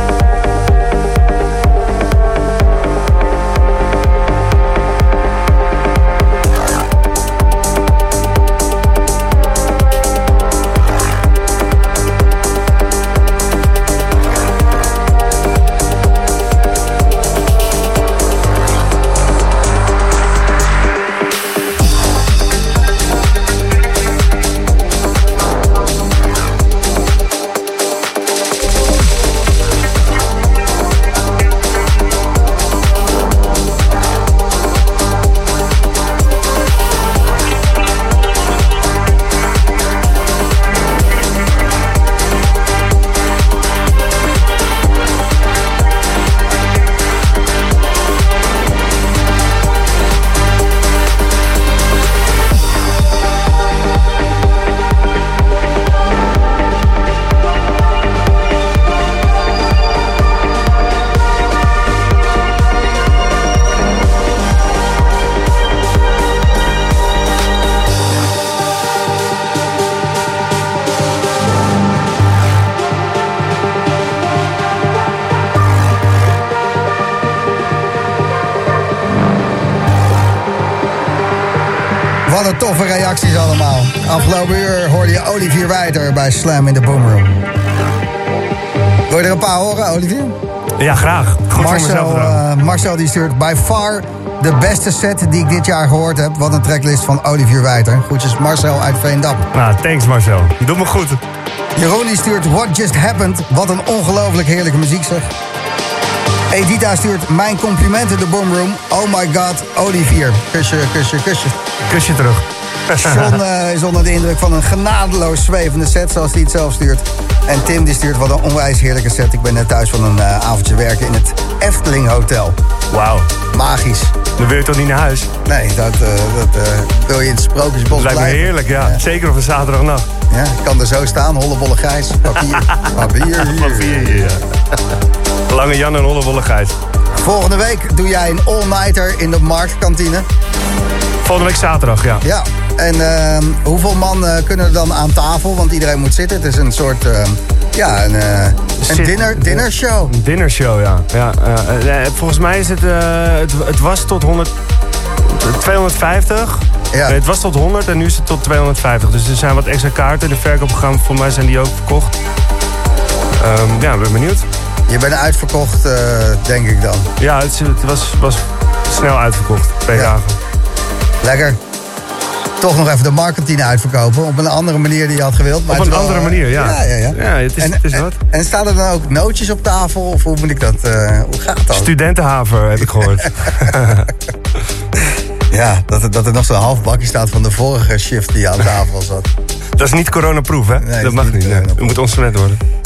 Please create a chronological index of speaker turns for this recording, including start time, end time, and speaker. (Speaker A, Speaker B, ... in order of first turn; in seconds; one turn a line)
Speaker A: 82.3-87.4
Speaker A: 89.1-90.4
Speaker B: 90.8-92.4
Speaker A: 91.5-99.5
Speaker B: 99.5-101.2
Speaker A: 101.8-105.3
Speaker A: 106.5-111.6
Speaker B: 111.9-113.4
Speaker A: 113.0-122.6
Speaker B: 122.9-123.3
Speaker A: 123.5-124.1
Speaker B: 124.4-125.3
Speaker A: 125.5-129.0
Speaker B: 127.9-130.1
Speaker A: 130.3-134.3
Speaker B: 132.6-134.8
Speaker B: 135.5-136.8
Speaker A: 137.2-140.3
Speaker B: 141.2-142.2
Speaker A: 142.2-150.1
Speaker B: 148.8-154.5
Speaker B: 155.2-162.1
Speaker B: 163.3-164.5
Speaker A: 164.9-167.1
Speaker B: 167.2-170.4
Speaker A: 171.2-171.6
Speaker A: 172.6-181.9
Speaker B: 175.7-178.2
Speaker B: 181.7-184.1
Speaker A: 183.1-183.6
Speaker A: 185.5-189.3
Speaker B: 189.8-192.6
Speaker A: 190.8-192.0